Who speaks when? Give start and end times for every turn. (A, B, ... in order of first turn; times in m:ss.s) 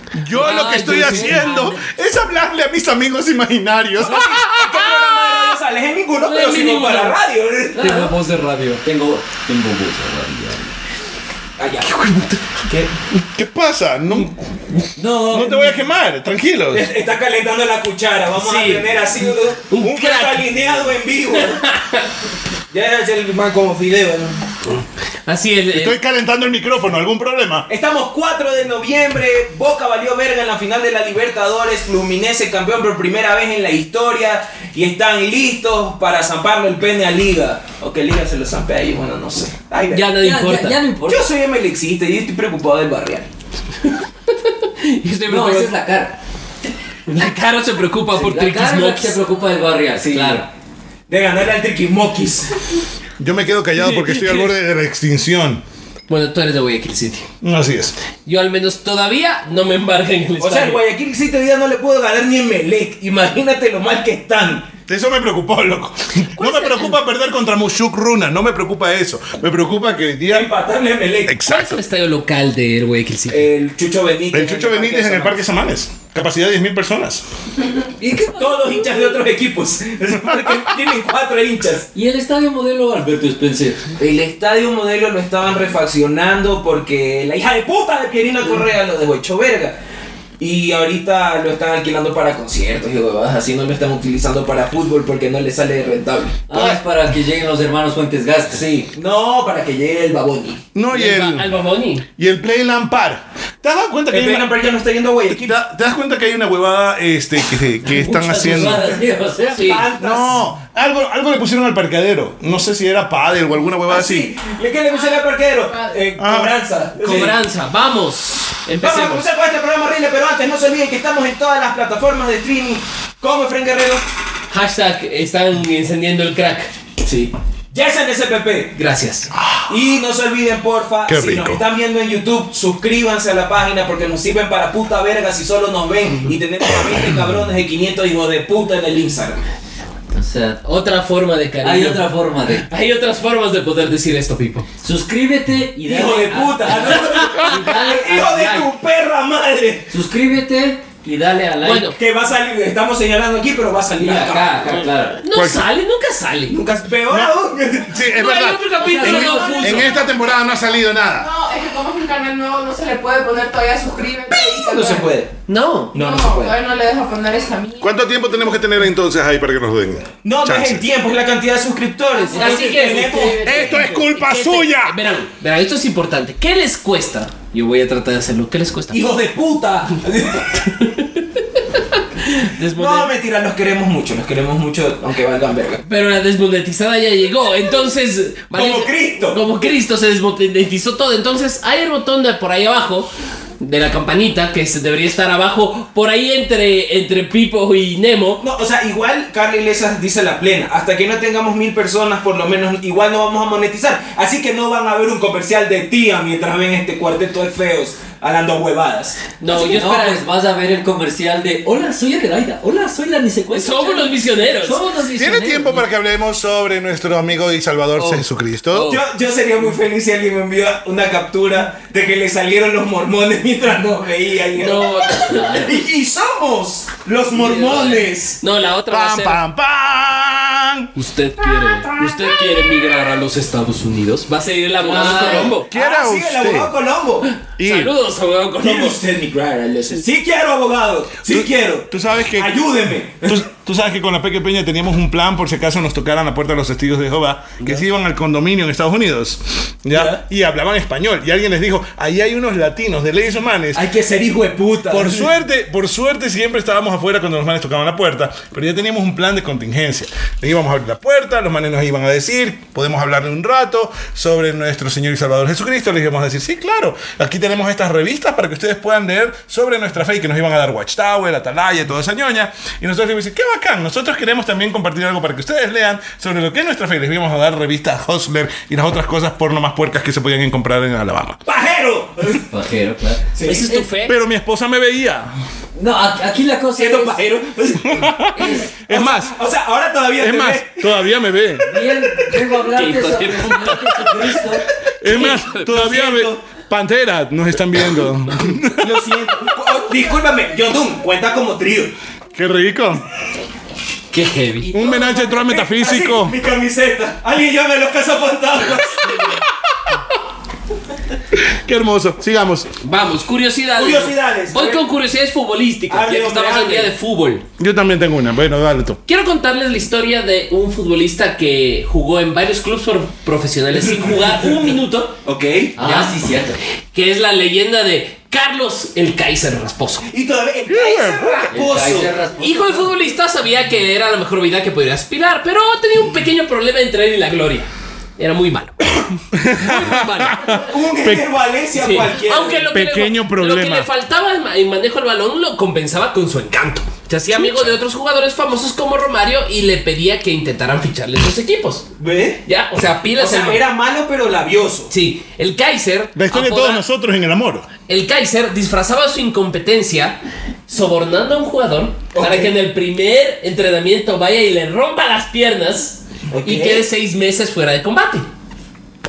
0:00.2-0:04.9 A
0:00.3-0:01.7 B
0:00.6-0:01.8 C
0:04.0-0:08.1 D
0:06.2-0:07.2 B
0:07.7-0:10.7 C
0:11.6-0:12.9 D
0:12.0-0:12.4 B
0:13.3-0:14.6 A
0:15.0-0:15.8 C
0:15.2-0:16.8 A
0:16.7-0:21.6 D
0:18.4-0:18.9 B
0:19.7-0:20.5 B
0:21.4-0:22.1 B
0:22.7-0:24.4 D
0:25.2-0:25.9 B
0:25.7-0:27.6 A
0:27.7-0:40.0 D
0:39.9-0:40.8 B
0:40.2-0:41.3 C
0:41.1-0:43.3 D
0:43.8-0:45.7 B
0:45.3-0:46.2 C
0:47.1-0:49.2 B
0:48.1-0:50.5 C
0:50.0-0:50.4 D
0:51.1-0:52.5 D
0:53.2-0:55.6 A
0:53.8-0:54.5 B
0:56.1-0:57.3 B
0:57.4-0:58.0 A
0:58.2-1:00.8 B
1:00.4-1:04.7 D
1:04.9-1:10.5 A
1:06.4-1:07.0 B
1:10.3-1:11.4 D
1:11.3-1:11.8 A
1:11.4-1:13.4 B
1:13.3-1:15.4 D
1:14.3-1:17.2 A
1:18.0-1:18.9 C
1:18.3-1:21.9 D
1:20.2-1:20.7 A
1:21.9-1:24.0 C
1:24.0-1:29.8 D
1:30.4-1:36.4 D
1:36.5-1:38.7 C
1:36.5-1:36.8 A
1:38.5-1:40.7 D
1:40.7-1:41.5 A
1:40.9-1:42.0 B
1:42.2-1:44.5 A
1:44.1-1:45.6 D
1:45.3-1:48.9 A
1:47.8-1:49.8 C
1:49.5-1:49.8 B
1:49.5-1:50.4 D
1:50.0-1:54.3 A
1:53.9-1:57.4 D
1:56.2-1:56.5 A
1:57.0-1:59.3 B
1:58.8-2:04.0 D
2:04.5-2:06.7 B
2:07.0-2:08.8 D
2:08.8-2:09.3 B
2:09.4-2:09.6 A
2:09.7-2:19.4 D
2:11.1-2:11.6 A
2:20.1-2:20.6 C
2:20.6-2:24.7 B
2:21.6-2:22.6 C
2:24.8-2:27.8 C
2:25.8-2:29.9 D
2:26.6-2:28.7 B
2:29.9-2:31.9 C
2:31.6-2:32.0 B
2:31.9-2:34.8 D
2:34.0-2:36.6 B
2:34.1-2:35.2 C
2:35.3-2:35.6 A
2:36.5-2:38.0 D
2:37.1-2:41.3 A
2:38.1-2:40.0 B
2:38.8-2:39.8 C
2:39.5-2:40.2 E
2:41.2-2:45.1 E
2:44.5-2:45.3 D
2:45.5-2:45.9 B
2:45.9-2:46.5 D
2:45.9-2:47.9 E
2:47.8-2:50.8 A
2:50.2-2:53.7 D
2:52.3-2:59.0 B
2:52.3-2:53.7 C
2:53.4-2:55.0 A
2:58.9-3:00.7 D
3:00.6-3:03.1 B
3:02.8-3:05.8 D
3:05.8-3:13.1 B
3:08.5-3:09.4 D
3:13.6-3:18.4 B
3:18.4-3:29.2 D
3:29.4-3:30.2 B
3:29.4-3:35.9 C
3:33.5-3:34.8 B
3:35.1-3:38.9 A
3:38.0-3:39.0 B
3:38.8-3:48.4 D
3:44.6-3:45.7 B
3:47.3-3:49.4 B
3:48.9-3:50.9 A
3:50.9-3:55.7 B
3:54.8-3:55.6 C
3:54.8-3:57.3 D
3:55.0-3:56.7 A
3:57.2-3:59.0 B
3:57.6-3:57.9 A
3:58.6-4:03.4 D
4:01.3-4:02.5 A
4:03.2-4:13.8 A
4:09.9-4:10.2 D
4:13.7-4:15.3 D
4:14.9-4:41.4 A
4:41.4-4:42.5 D
4:42.3-4:43.9 C
4:43.3-4:43.7 D
4:43.4-4:44.1 B
4:44.0-4:45.3 A
4:45.8-4:47.2 C
4:46.8-4:51.0 D
4:47.8-4:49.3 A
4:48.3-4:48.7 C
4:50.2-4:51.7 A
4:51.6-4:54.6 C
4:52.7-4:54.1 B
4:55.0-4:59.1 A
4:55.0-4:56.4 D
4:55.1-4:55.6 B
4:58.8-5:01.9 D
5:02.3-5:03.0 A
5:04.1-5:04.7 C
5:04.2-5:04.7 B
5:04.7-5:06.3 A
5:04.7-5:09.4 D
5:11.3-5:12.7 A
5:12.8-5:17.4 B
5:13.8-5:14.8 D
5:15.9-5:16.9 D
5:17.6-5:19.0 A
5:19.1-5:25.1 B
5:25.2-5:25.8 D
5:25.8-5:26.6 C
5:25.8-5:26.1 B
5:26.9-5:30.1 B
5:30.1-5:32.1 D
5:30.7-5:31.4 A
5:31.5-5:32.9 C
5:32.4-5:40.4 B
5:39.3-5:41.3 A
5:40.4-5:42.6 D
5:41.8-5:51.9 B
5:42.7-5:43.9 A
5:52.0-5:52.4 D
5:52.4-5:53.6 B
5:53.2-5:54.9 D
5:54.9-5:56.8 B
5:56.2-5:57.7 A
5:57.9-6:00.2 B
6:00.7-6:08.2 B
6:02.1-6:02.5 D
6:06.3-6:06.8 D